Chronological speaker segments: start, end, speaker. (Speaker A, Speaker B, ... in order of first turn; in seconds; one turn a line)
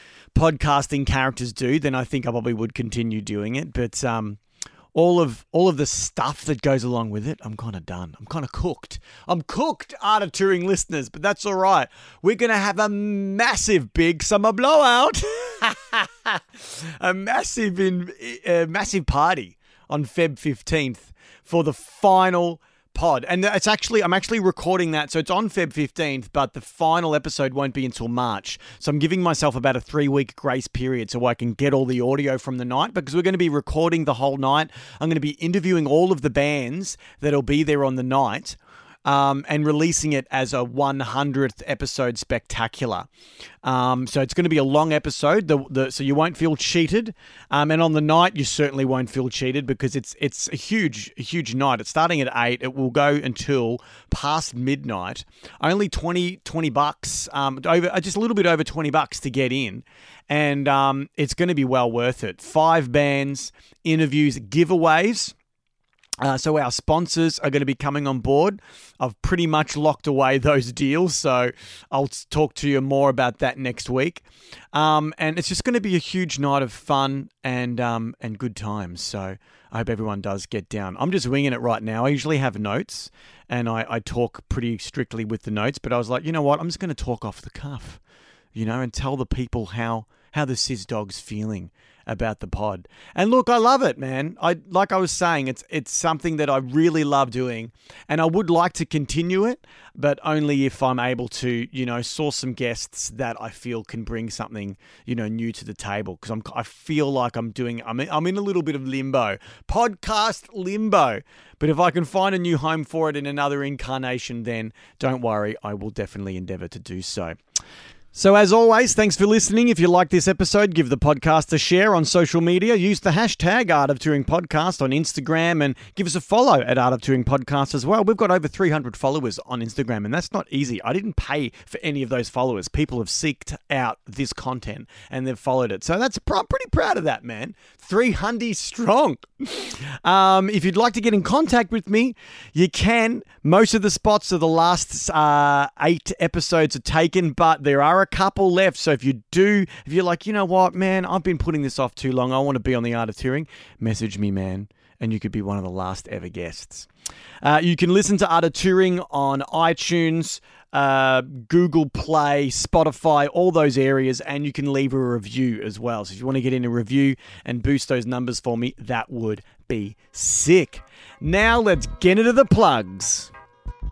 Speaker A: 0.3-4.4
Speaker A: 4.9-43.1
Speaker A: 43.6-65.3
Speaker A: 66.2-88.0
Speaker A: 88.5-117.4
Speaker A: 118.1-156.9
Speaker A: 157.4-173.3